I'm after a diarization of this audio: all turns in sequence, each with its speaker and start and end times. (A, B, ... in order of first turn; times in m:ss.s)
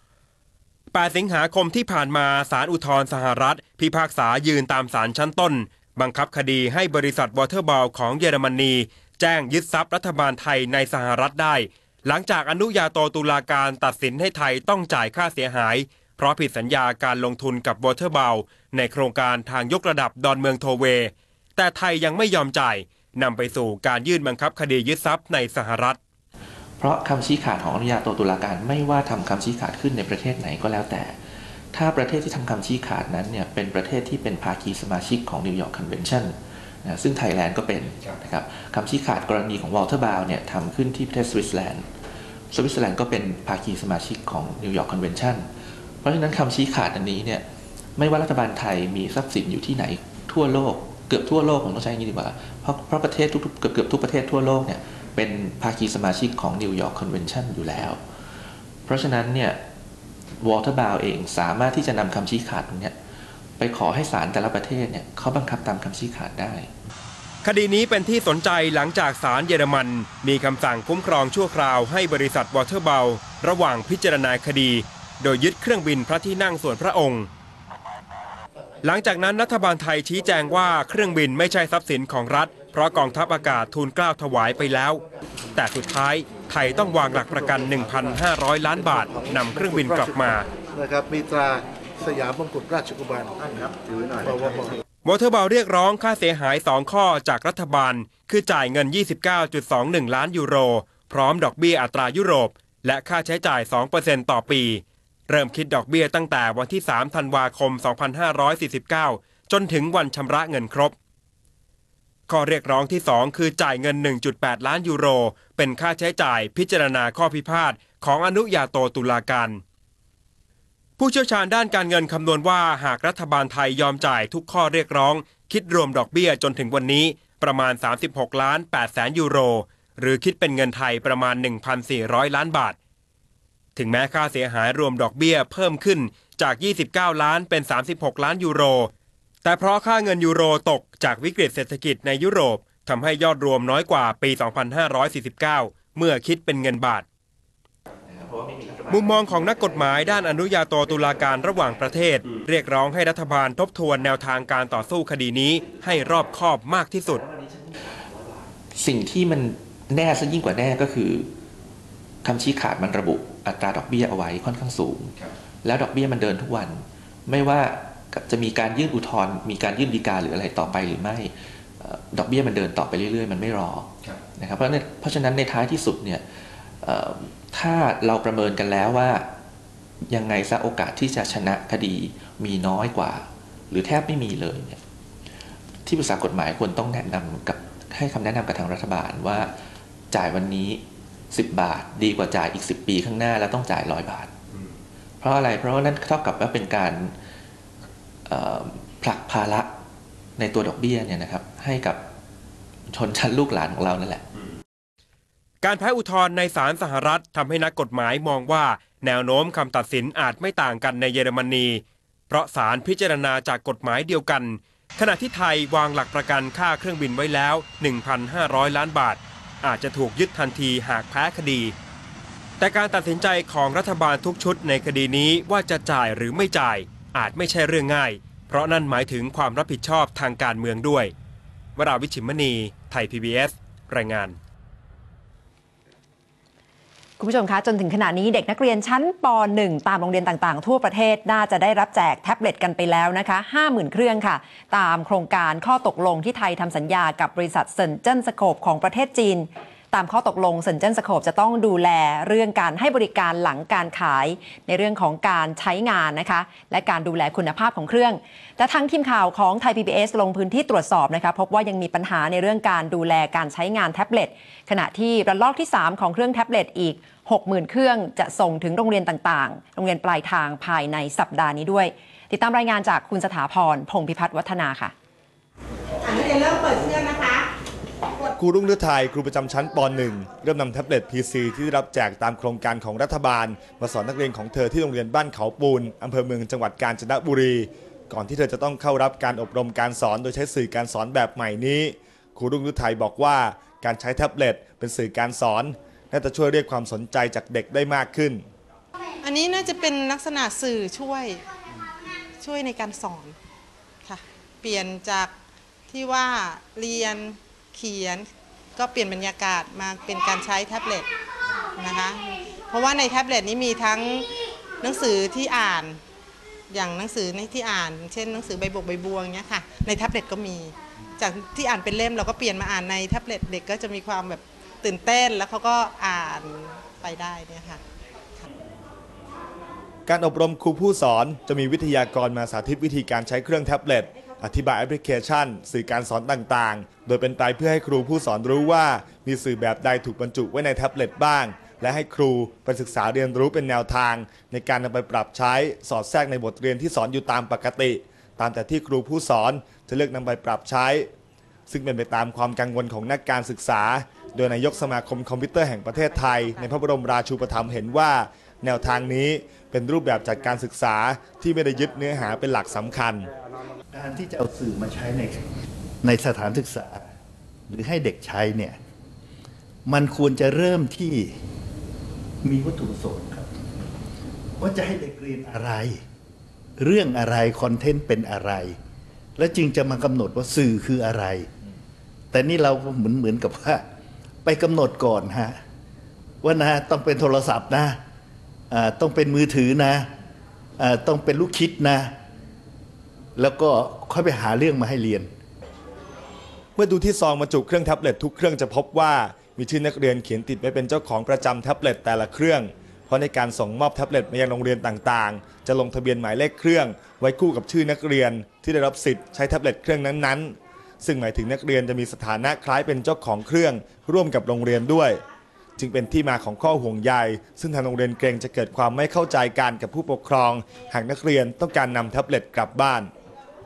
0:00.9-0:26.0 A
0:26.8-0:31.2 B
0:31.7-0:41.9 B
0:42.5-0:58.0 B
0:58.8-0:59.6 B
1:00.4-1:03.0 B
1:03.6-1:06.7 B
1:07.4-1:17.3 A
1:18.8-1:25.0 A
1:25.5-1:30.5 A
1:29.7-1:30.1 C
1:30.7-1:34.7 C
1:35.0-1:50.9 A
1:52.3-1:59.6 A
2:01.0-2:12.8 A
2:13.8-2:18.9 A
2:19.4-2:27.0 A
2:28.1-2:29.8 B
2:28.9-2:37.2 A
2:37.3-2:41.3 B
2:42.2-2:59.3 B
3:00.1-3:04.8 B
3:05.8-3:09.6 B
3:10.1-3:14.3 B
3:15.2-3:17.2 B
3:18.2-3:19.7 B
3:20.4-3:22.0 B
3:22.9-3:24.3 B
3:25.6-3:41.7 A
3:42.6-3:51.1 A
3:51.8-3:54.4 A
3:57.2-4:34.9 D
4:36.0-4:37.5 E
4:38.4-4:58.4 F
4:59.2-5:01.5 E
5:02.3-5:03.4 E
5:04.0-5:05.3 E
5:05.9-5:11.1 E
5:11.7-5:16.0 E
5:16.7-5:27.8 E
5:30.0-5:51.1 F
5:51.7-6:03.3 F
6:03.9-6:05.5 G
6:06.0-6:07.1 G
6:07.7-6:08.8 G
6:09.8-6:11.4 G
6:12.4-6:13.7 G
6:14.6-6:16.0 G
6:16.8-6:18.8 G
6:19.4-6:21.5 G
6:22.3-6:23.8 G
6:24.4-6:25.6 G
6:26.4-6:28.0 G
6:28.7-6:30.1 G
6:30.8-6:32.1 G
6:33.4-6:35.3 G
6:36.8-6:55.2 F
6:55.8-7:03.1 F